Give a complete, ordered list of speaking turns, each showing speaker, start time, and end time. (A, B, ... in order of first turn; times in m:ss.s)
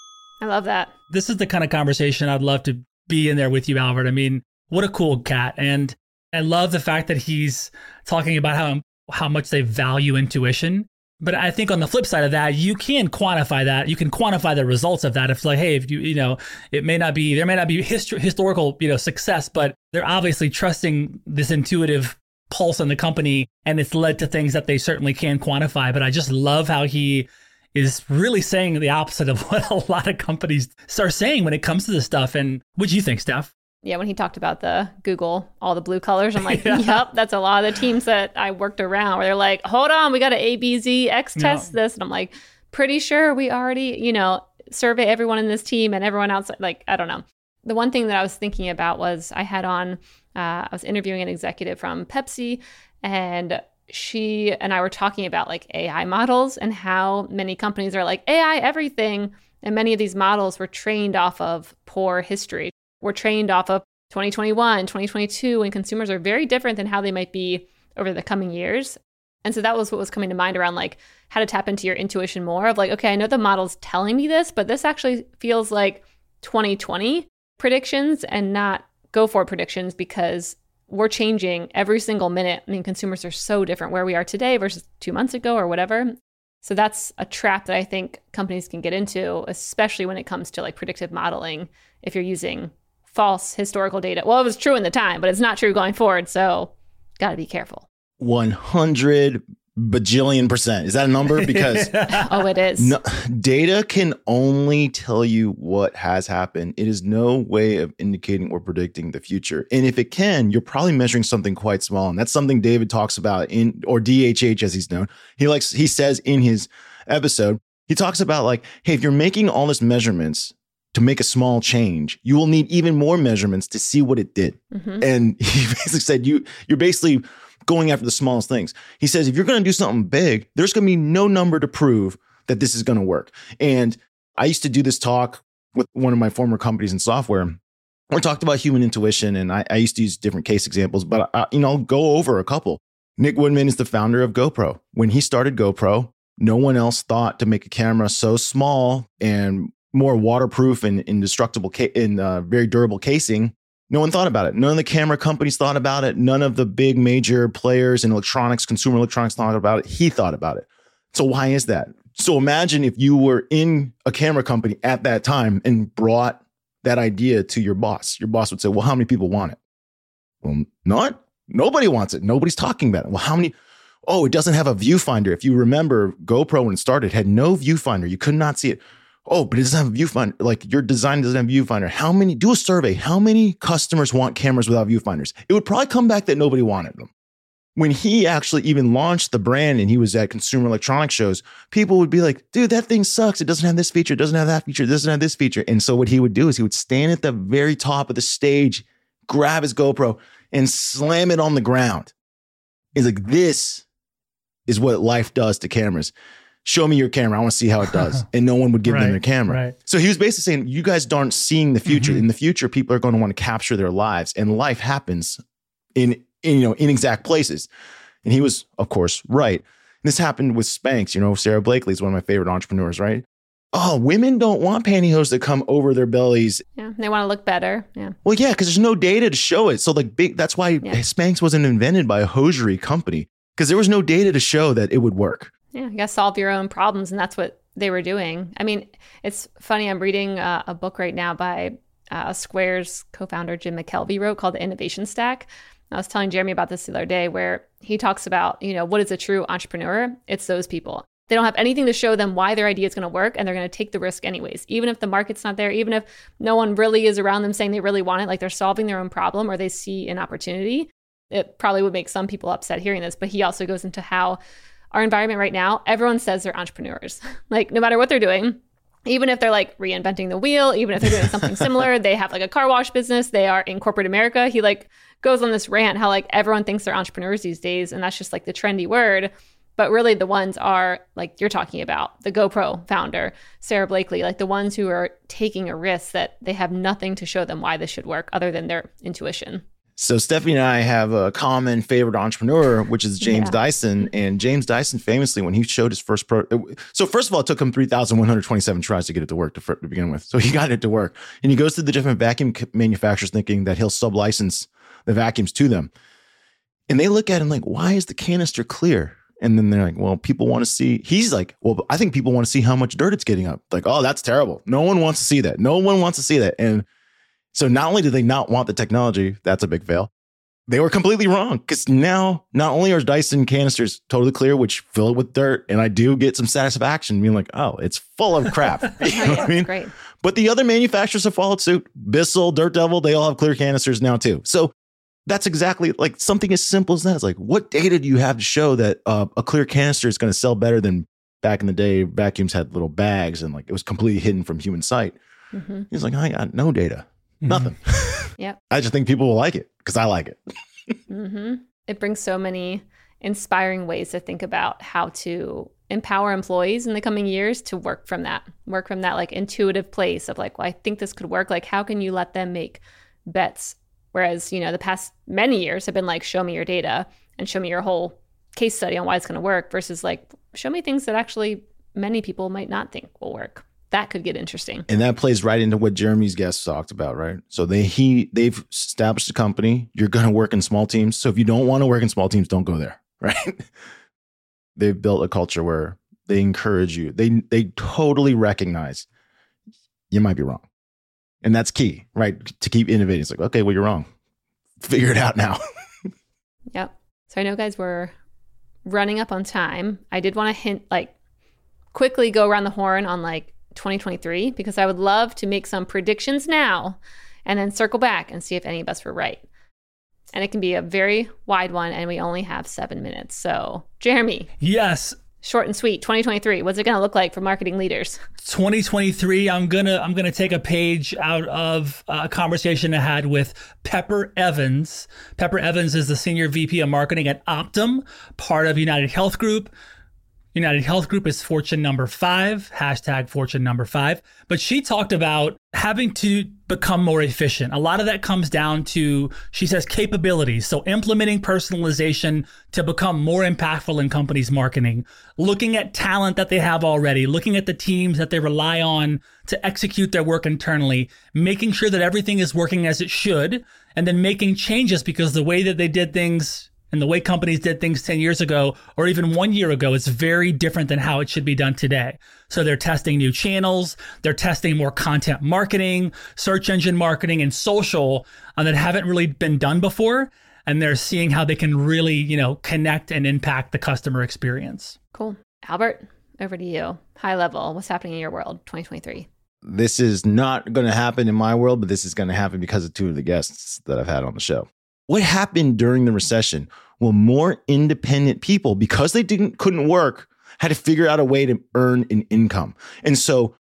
0:00.4-0:00.9 A
0:01.1-0:33.5 B
0:33.8-1:37.8 A
0:36.4-0:37.0 B
0:41.4-0:41.7 B
1:38.2-1:42.1 C
1:41.3-1:42.2 B
1:42.1-1:42.9 A
1:42.8-2:17.6 C
2:04.7-2:05.0 A
2:18.1-2:49.6 C
2:50.4-2:53.5 C
2:54.0-3:07.1 C
3:07.8-3:22.1 C
3:22.9-3:23.8 C
3:24.7-3:26.1 C
3:26.6-3:35.4 C
3:28.8-3:29.7 B
3:31.8-3:32.2 B
3:35.9-3:37.7 C
3:38.2-3:46.6 C
3:46.8-3:48.1 A
3:48.2-3:55.5 C
3:55.7-4:24.4 A
4:24.9-4:49.6 A
4:31.0-4:31.8 C
4:50.0-5:05.9 C
4:53.2-4:53.6 A
5:06.9-5:16.9 C
5:17.5-5:20.1 C
5:20.7-5:34.7 C
5:29.0-5:29.9 A
5:35.2-5:45.2 C
5:45.5-5:45.9 A
5:45.9-5:50.9 C
5:47.4-5:47.7 B
5:51.1-6:14.9 A
6:14.9-6:23.7 C
6:24.8-6:29.0 C
6:30.1-6:30.6 C
6:31.4-6:34.1 C
6:34.8-6:35.6 C
6:36.7-6:38.1 A
6:38.8-6:41.1 A
6:41.9-6:49.4 A
6:50.3-6:54.5 A
6:54.6-6:55.2 B
6:55.4-6:58.2 A
6:58.4-7:09.7 B
7:10.5-7:55.0 B
7:55.1-7:59.3 A
7:59.6-8:13.6 C